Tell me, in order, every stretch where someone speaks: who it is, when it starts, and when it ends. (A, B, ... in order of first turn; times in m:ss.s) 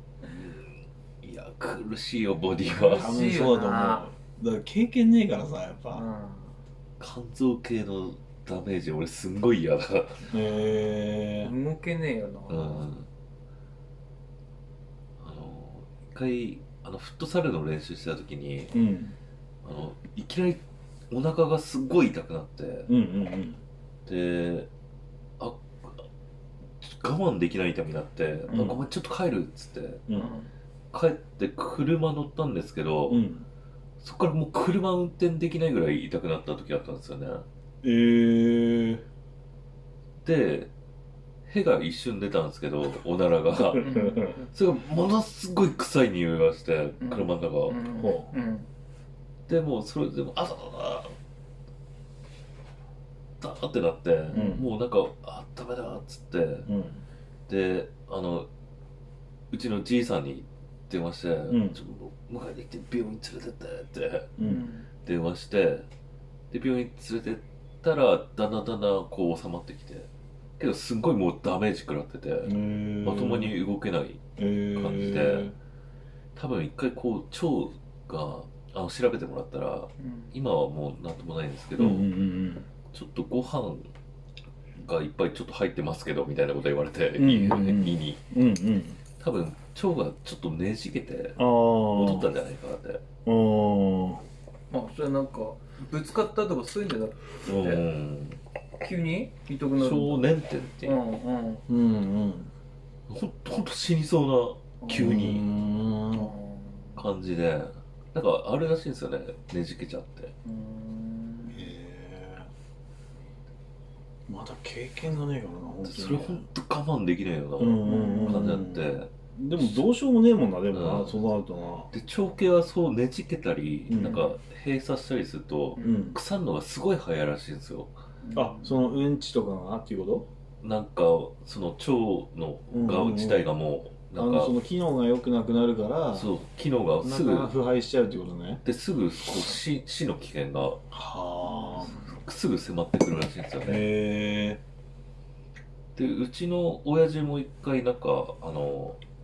0:00.2-0:03.2 A
0:02.7-0:04.1 B
0:03.0-0:06.0 C
0:05.9-0:06.6 B
0:07.0-0:10.3 A
0:10.3-0:11.5 C
0:11.4-0:12.9 B
0:12.5-0:13.1 A
0:15.2-0:18.8 A
0:18.7-0:19.1 C
0:19.6-0:22.9 A
0:22.9-0:23.6 C
0:24.0-0:24.7 A
0:25.4-0:26.0 A
0:26.8-0:30.0 A
0:28.5-0:28.8 B
0:30.1-0:30.3 C
0:30.1-0:30.5 B
0:30.9-0:33.2 A
0:33.1-0:33.4 C
0:34.0-0:37.4 A
0:37.8-0:39.0 C
0:40.2-0:40.7 A
0:41.5-0:43.9 A
0:43.8-0:44.4 B
0:43.8-0:44.4 C
0:44.5-0:47.8 A
0:47.0-0:48.7 B
0:47.9-0:48.3 C
0:49.5-0:51.1 A
0:53.4-0:56.7 A
0:54.3-0:54.6 C
0:56.6-0:57.0 C
0:57.5-0:58.5 A
0:59.5-1:04.3 A
1:01.5-1:01.8 C
1:04.4-1:04.7 C
1:04.4-1:04.8 B
1:05.0-1:05.9 A
1:06.5-1:15.5 A
1:12.4-1:13.5 C
1:14.4-1:15.5 C
1:16.3-1:22.1 A
1:20.0-1:20.3 B
1:21.8-1:22.7 C
1:22.9-1:23.9 A
1:24.8-1:28.2 A
1:27.2-1:29.0 C
1:29.2-1:33.0 A
1:31.4-1:32.3 C
1:33.2-1:34.2 C
1:34.7-1:37.8 B
1:37.4-1:38.4 A
1:38.8-1:40.3 B
1:39.8-1:41.0 A
1:40.8-1:41.6 B
1:41.7-1:42.5 C
1:43.1-1:45.4 A
1:44.8-1:45.2 B
1:44.9-1:46.3 C
1:46.1-1:47.0 B
1:47.0-1:50.3 A
1:50.4-1:51.7 B
1:51.5-1:52.5 C
1:54.3-1:56.5 C
1:55.8-1:59.8 A
1:57.6-1:58.8 C
1:57.8-1:58.5 B
1:59.3-2:01.9 C
2:00.7-2:01.3 A
2:01.9-2:07.9 A
2:03.9-2:04.2 C
2:04.0-2:04.4 B
2:05.8-2:06.1 B
2:05.8-2:06.2 C
2:08.2-2:08.8 B
2:08.3-2:10.3 C
2:10.6-2:14.5 A
2:12.7-2:13.5 C
2:14.2-2:16.3 C
2:16.1-2:17.5 A
2:17.0-2:18.6 C
2:18.6-2:20.8 A
2:20.9-2:21.9 C
2:21.4-2:22.0 B
2:22.1-2:23.9 A
2:23.6-2:24.6 C
2:26.0-2:29.0 A